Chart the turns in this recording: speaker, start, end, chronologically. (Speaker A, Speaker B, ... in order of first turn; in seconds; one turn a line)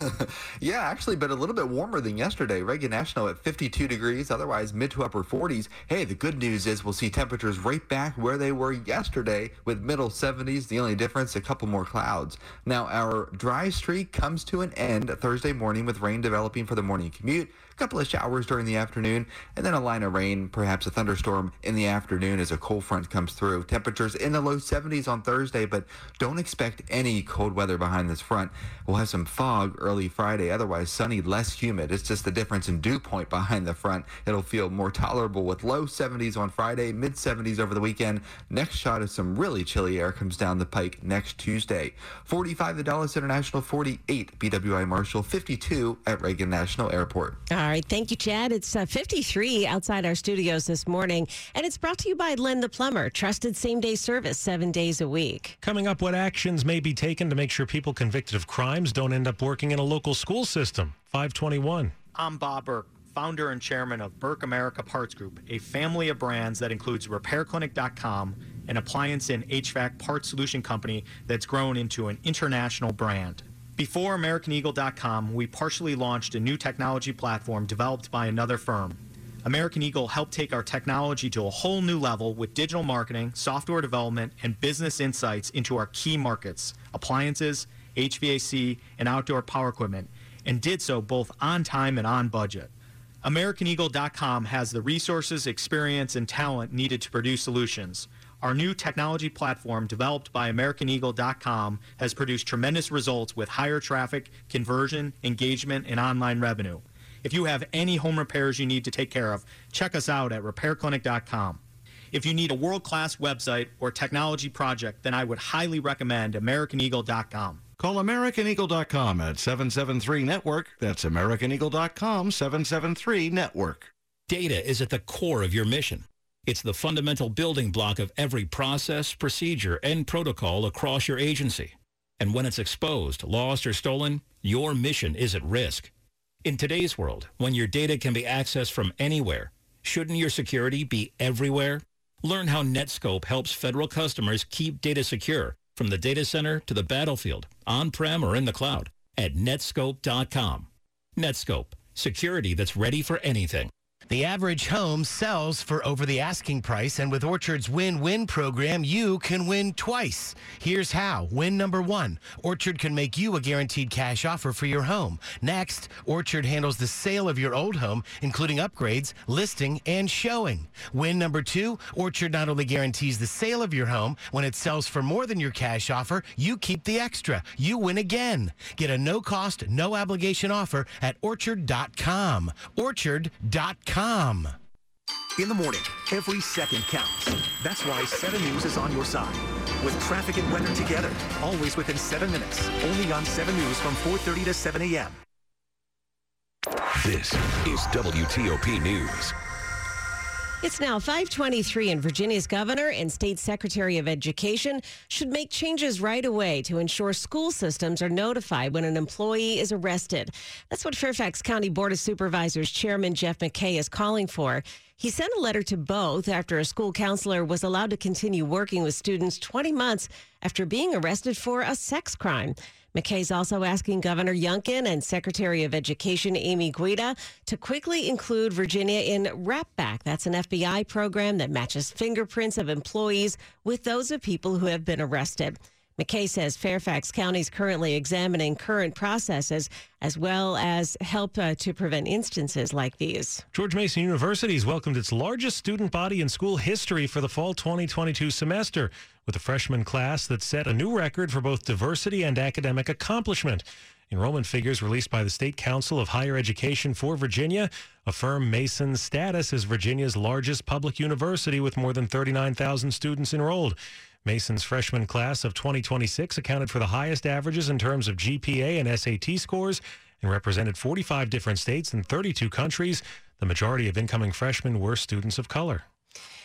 Speaker A: 0.2-47.4
Speaker B: 47.5-55.6
Speaker C: 55.6-61.9
Speaker D: 62.1-92.7
Speaker D: 93.2-111.6
Speaker D: 112.1-117.6
Speaker E: 117.8-123.9
Speaker F: 124.3-135.9
Speaker F: 136.4-153.7
Speaker G: 154.1-184.6
Speaker H: 185.4-195.2
Speaker I: 197.0-199.3
Speaker B: 200.6-243.4
Speaker C: 243.5-275.8